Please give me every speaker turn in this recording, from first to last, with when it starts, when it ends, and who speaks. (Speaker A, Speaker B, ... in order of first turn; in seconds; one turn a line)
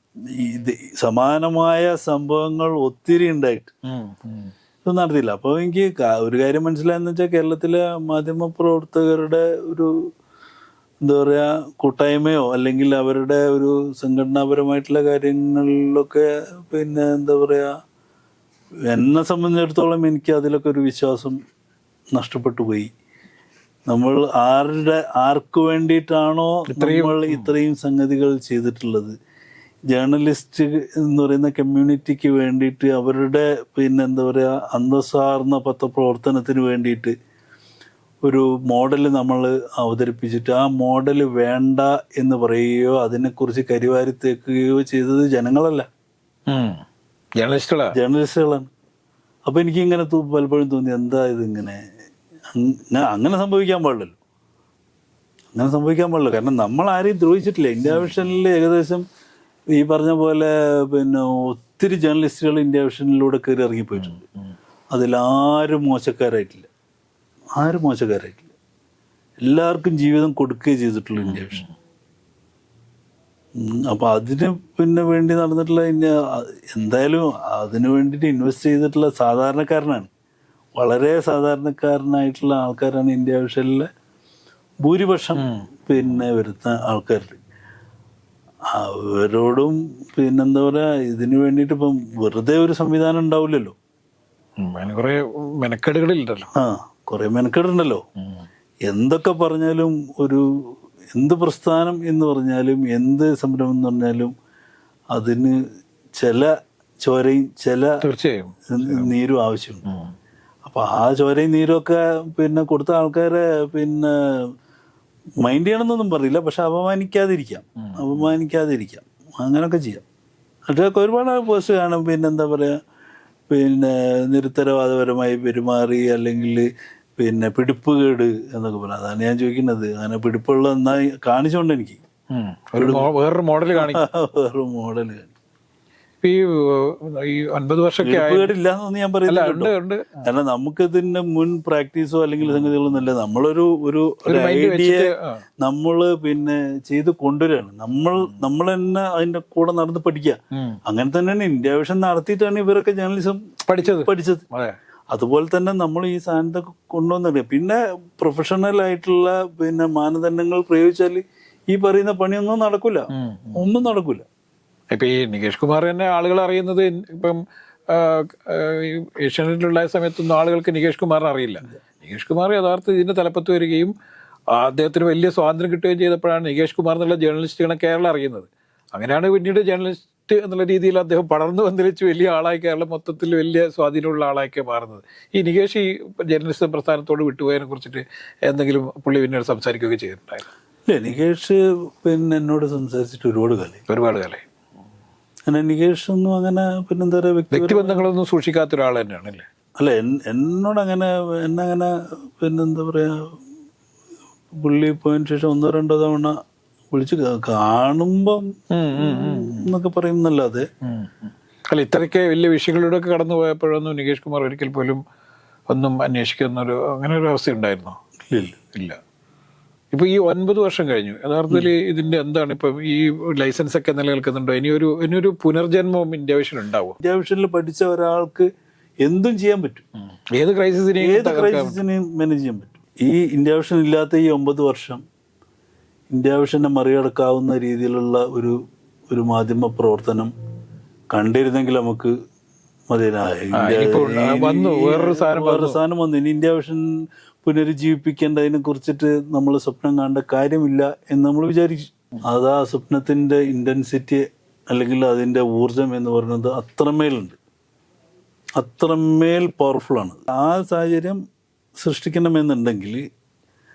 Speaker A: 0.2-3.7
Speaker B: 3.8-4.5
Speaker A: 4.8-9.9
Speaker A: 11.0-17.7
Speaker A: 18.9-21.4
Speaker A: 22.1-22.9
Speaker A: 23.9-29.1
Speaker B: 26.7-27.5
Speaker A: 29.9-37.1
Speaker A: 38.2-45.9
Speaker B: 46.5-46.8
Speaker B: 47.4-47.9
Speaker A: 47.9-48.7
Speaker A: 49.5-51.8
Speaker A: 52.5-54.1
Speaker A: 55.5-59.0
Speaker B: 57.9-58.1
Speaker A: 59.8-64.2
Speaker B: 64.0-64.5
Speaker A: 64.9-66.7
Speaker A: 67.6-68.5
Speaker A: 69.4-71.6
Speaker B: 71.1-71.7
Speaker A: 73.6-80.1
Speaker A: 80.8-83.9
Speaker A: 84.8-87.4
Speaker B: 85.4-85.7
Speaker A: 88.7-93.7
Speaker B: 94.6-96.5
Speaker A: 96.5-98.0
Speaker B: 98.2-98.5
Speaker A: 98.9-100.4
Speaker A: 101.1-104.3
Speaker A: 105.1-105.6
Speaker A: 106.2-106.5
Speaker A: 107.0-108.0
Speaker B: 108.0-109.1
Speaker A: 108.7-109.8
Speaker B: 109.8-110.1
Speaker A: 110.6-114.5
Speaker A: 115.4-120.0
Speaker B: 117.8-118.2
Speaker A: 120.7-122.8
Speaker A: 123.5-132.0
Speaker B: 132.3-134.0
Speaker A: 132.8-133.1
Speaker A: 133.7-135.3
Speaker B: 136.2-138.5
Speaker A: 138.0-145.1
Speaker B: 139.3-140.2
Speaker B: 142.4-142.8
Speaker B: 144.3-145.4
Speaker A: 145.6-154.4
Speaker B: 150.5-150.8
Speaker B: 153.7-154.8
Speaker A: 155.1-164.2
Speaker B: 163.1-163.6
Speaker B: 164.9-173.9
Speaker B: 174.5-190.4
Speaker A: 190.8-193.8
Speaker B: 193.9-194.4
Speaker A: 195.5-198.0
Speaker B: 197.5-199.4
Speaker A: 199.8-203.2
Speaker A: 204.5-206.3
Speaker A: 206.9-208.4
Speaker B: 208.7-209.7
Speaker A: 208.9-210.7
Speaker B: 210.8-215.0
Speaker B: 215.7-218.0
Speaker A: 218.3-218.6
Speaker B: 218.7-219.0
Speaker B: 219.9-227.0
Speaker A: 227.0-228.5
Speaker A: 229.0-229.8
Speaker B: 230.3-231.8
Speaker A: 231.0-235.0
Speaker A: 236.1-238.6
Speaker A: 239.1-240.3
Speaker A: 241.1-242.1
Speaker A: 242.9-246.8
Speaker B: 243.5-245.8
Speaker A: 247.4-257.4
Speaker A: 258.6-261.2
Speaker A: 261.8-263.0